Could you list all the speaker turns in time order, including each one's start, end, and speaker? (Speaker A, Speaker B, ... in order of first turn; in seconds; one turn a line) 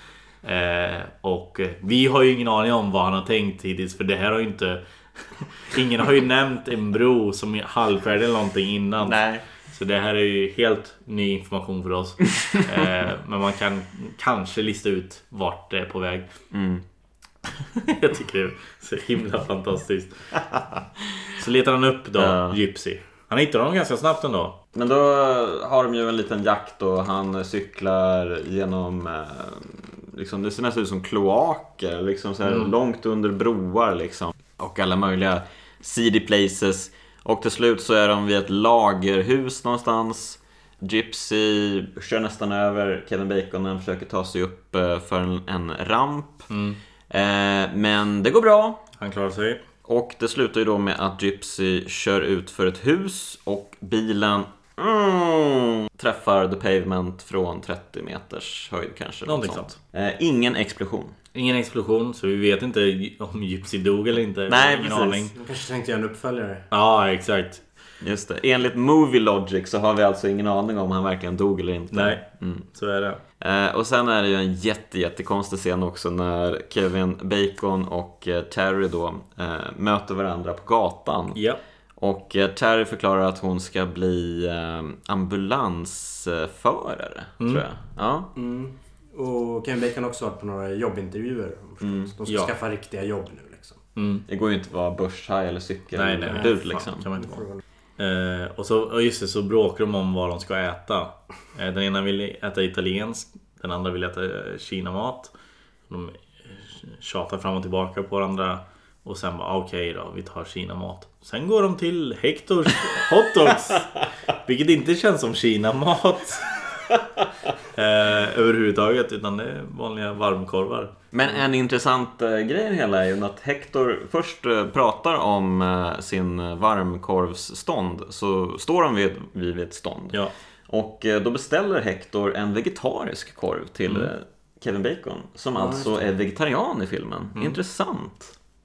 Speaker A: 0.4-16.3
Speaker B: 9.0-9.4
Speaker B: 16.5-16.8
Speaker A: 17.5-20.1
Speaker A: 21.4-24.6
Speaker B: 22.2-22.6
Speaker B: 24.8-46.5
Speaker A: 32.5-32.7
Speaker A: 46.5-46.8
Speaker B: 47.1-48.8
Speaker A: 49.0-49.6
Speaker B: 49.9-61.2
Speaker A: 59.3-59.8
Speaker A: 61.3-65.3
Speaker B: 64.5-65.3
Speaker C: 65.3-66.7
Speaker A: 66.7-67.6
Speaker B: 68.0-72.7
Speaker A: 71.9-72.2
Speaker A: 72.7-73.2
Speaker B: 73.4-81.4
Speaker A: 81.3-81.6
Speaker B: 82.0-88.3
Speaker C: 88.3-93.8
Speaker B: 91.8-92.1
Speaker A: 92.3-92.5
Speaker A: 94.0-94.3
Speaker B: 94.3-97.1
Speaker A: 96.0-97.4
Speaker C: 96.3-96.6
Speaker C: 97.2-97.6
Speaker A: 98.0-105.3
Speaker A: 105.9-113.9
Speaker A: 114.5-116.6
Speaker A: 117.7-120.9
Speaker B: 121.1-138.3
Speaker C: 135.6-135.9